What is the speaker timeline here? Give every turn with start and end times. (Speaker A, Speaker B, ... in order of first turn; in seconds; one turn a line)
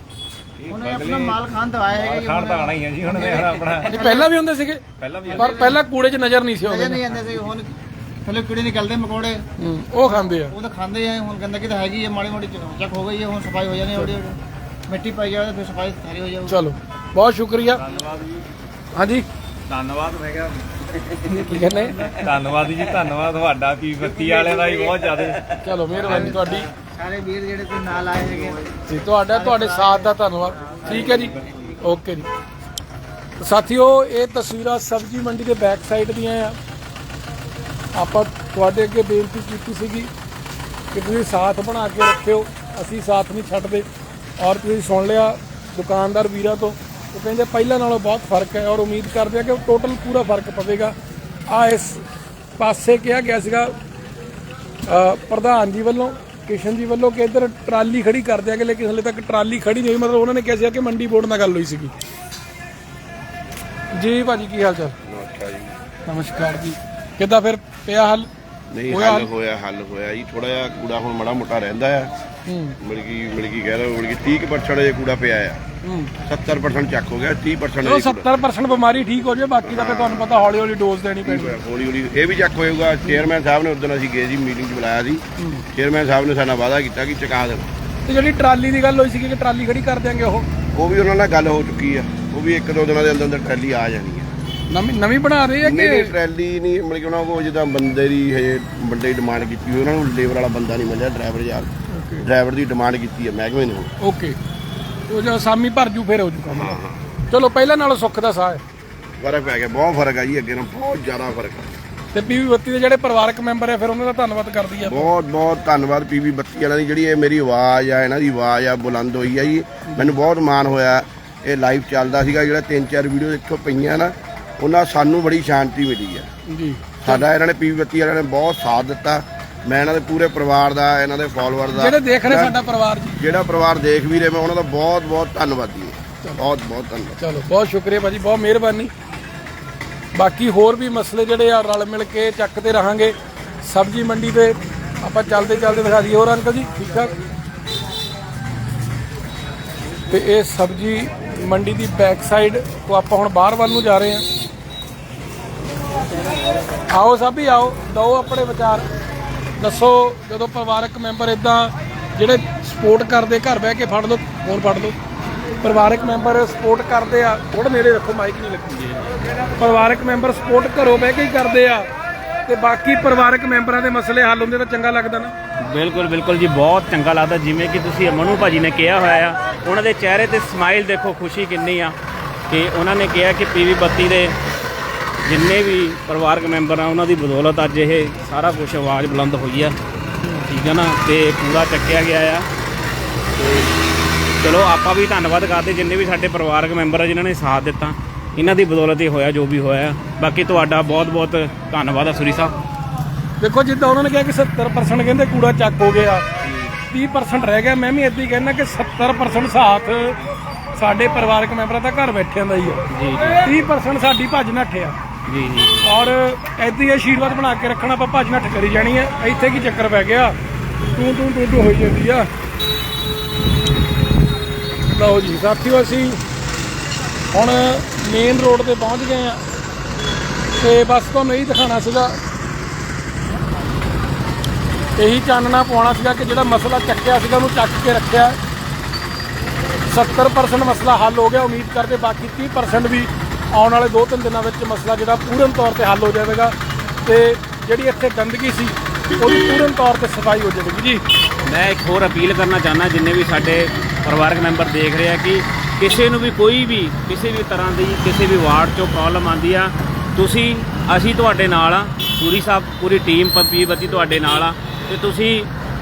Speaker A: 0.6-4.0
Speaker B: 0.7-4.3
Speaker C: 3.9-7.0
Speaker A: 5.0-5.7
Speaker B: 5.3-5.8
Speaker B: 6.6-9.5
Speaker C: 9.6-10.5
Speaker B: 10.1-16.6
Speaker C: 16.5-17.8
Speaker A: 17.6-18.4
Speaker C: 18.9-19.3
Speaker A: 19.7-20.7
Speaker C: 21.2-22.0
Speaker B: 21.3-22.3
Speaker A: 22.2-25.6
Speaker C: 25.6-26.7
Speaker B: 26.0-28.6
Speaker C: 28.9-32.3
Speaker B: 29.2-31.3
Speaker C: 33.4-36.6
Speaker C: 37.9-40.1
Speaker C: 40.9-43.9
Speaker C: 44.4-51.0
Speaker C: 51.5-52.0
Speaker C: 52.6-53.8
Speaker C: 54.9-61.9
Speaker C: 63.9-65.0
Speaker D: 65.0-65.8
Speaker C: 66.1-68.3
Speaker D: 68.7-72.1
Speaker C: 68.9-69.3
Speaker C: 72.5-72.8
Speaker D: 72.8-75.6
Speaker C: 75.8-76.1
Speaker D: 76.2-78.3
Speaker C: 77.8-81.5
Speaker D: 79.6-80.3
Speaker D: 81.2-87.7
Speaker C: 85.4-85.7
Speaker C: 88.0-90.5
Speaker D: 90.8-94.3
Speaker C: 94.7-96.1
Speaker D: 95.6-101.7
Speaker C: 101.9-102.3
Speaker D: 102.2-103.9
Speaker C: 104.0-104.4
Speaker C: 105.1-106.8
Speaker D: 106.5-107.0
Speaker C: 107.3-108.6
Speaker D: 109.2-111.8
Speaker C: 112.1-115.1
Speaker D: 114.8-126.3
Speaker C: 126.5-127.2
Speaker D: 127.0-132.6
Speaker C: 131.7-133.2
Speaker D: 133.2-137.2
Speaker C: 137.2-138.9
Speaker C: 140.2-147.1
Speaker C: 150.1-154.3
Speaker C: 156.9-158.9
Speaker C: 159.6-164.9
Speaker C: 165.6-169.0
Speaker C: 169.6-171.9
Speaker C: 172.5-175.3
Speaker E: 175.6-182.0
Speaker E: 182.5-184.4
Speaker E: 185.2-189.8
Speaker E: 190.3-192.5
Speaker E: 194.4-202.6
Speaker C: 203.4-206.3
Speaker E: 206.4-206.7
Speaker C: 206.9-210.2
Speaker C: 210.8-212.8
Speaker E: 212.9-213.5
Speaker C: 213.4-215.0
Speaker E: 215.3-215.9
Speaker C: 215.8-220.4
Speaker C: 220.9-222.3
Speaker C: 224.9-226.2
Speaker C: 227.3-229.4
Speaker C: 230.6-232.2
Speaker C: 235.0-238.4
Speaker C: 239.9-246.5
Speaker C: 247.1-251.0
Speaker E: 251.4-265.5